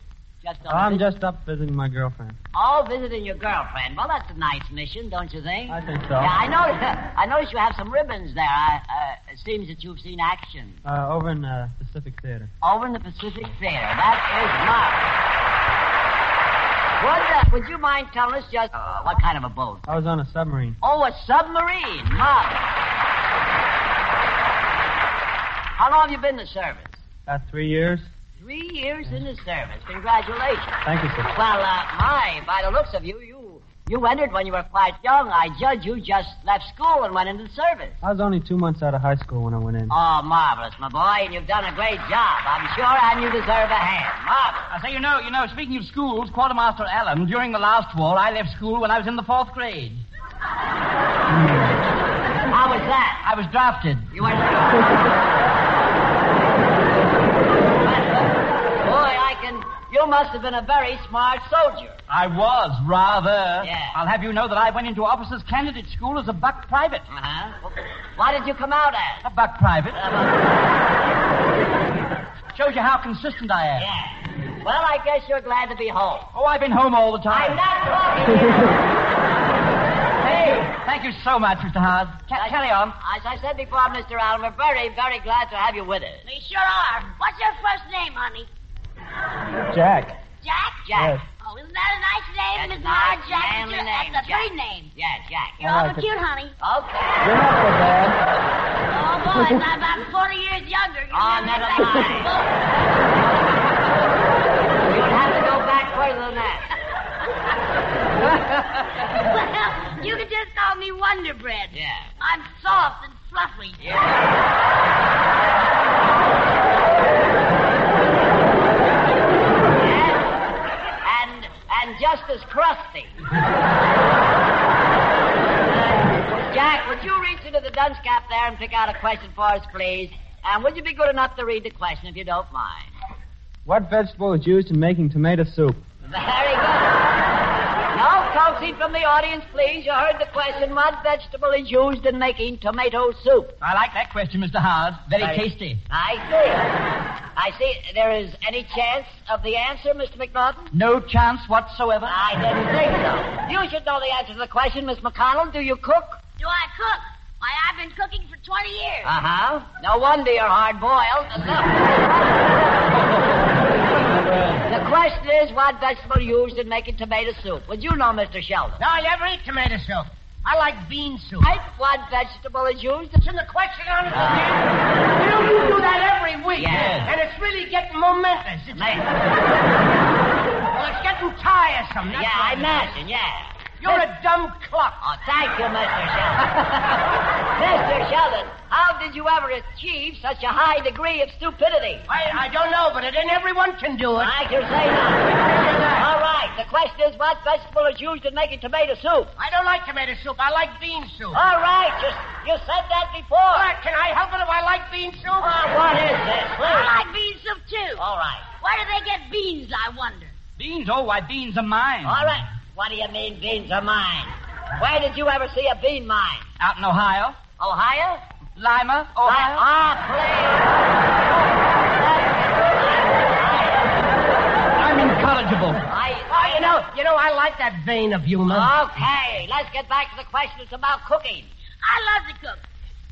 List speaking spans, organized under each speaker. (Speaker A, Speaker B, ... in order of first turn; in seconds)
Speaker A: 0.4-1.0, 2.5-10.8, 12.6-15.1, 17.0-19.9, 20.8-22.6, 25.8-27.0, 28.4-38.0, 39.9-44.7, 52.5-53.2, 54.1-55.0, 57.8-62.0, 63.6-64.0, 67.1-69.2, 69.9-70.9, 73.8-76.3, 77.3-78.8, 80.2-80.6, 82.3-86.2, 90.9-91.2, 92.5-95.9, 96.6-97.3, 101.1-102.3, 104.8-106.7, 111.7-112.1, 113.8-114.3, 119.7-120.4, 121.0-123.1, 125.6-132.9, 136.0-137.1, 137.9-143.6, 145.2-146.7, 147.3-150.7, 152.1-156.2, 159.0-163.0, 164.7-168.8, 171.4-173.2, 174.1-174.6, 176.5-177.1, 178.7-179.1, 182.1-183.9, 185.0-187.0, 187.5-192.1, 194.2-199.3, 201.3-203.7, 205.4-207.0, 207.9-208.5, 212.0-216.5, 217.6-218.2, 219.2-221.0, 221.7-224.0, 225.9-226.7, 228.5-231.5
Speaker B: 0.7-2.4, 5.7-6.3, 10.8-12.5, 19.9-20.8, 27.3-28.1, 30.8-31.3, 38.0-39.9, 89.7-90.2, 90.9-91.2, 95.6-96.1, 97.2-98.2, 133.7-135.8
Speaker C: 44.7-50.0, 53.2-54.1, 62.1-67.0, 69.2-70.0, 72.5-73.8, 76.3-77.6, 80.2-83.0, 143.6-145.8, 150.7-152.2, 176.7-177.1, 210.6-212.3, 216.6-217.4, 218.6-219.6, 224.8-225.8
Speaker D: 86.2-88.5, 90.4-90.9, 91.4-94.9, 95.6-96.5, 98.8-102.6, 109.1-113.8, 156.4-159.1, 206.6-208.0, 208.6-210.3, 231.8-232.6
Speaker E: 168.8-171.5, 173.2-179.1, 180.7-182.9, 183.8-185.0, 192.1-194.3, 195.6-195.9, 199.4-201.4, 203.5-205.6, 226.3-228.7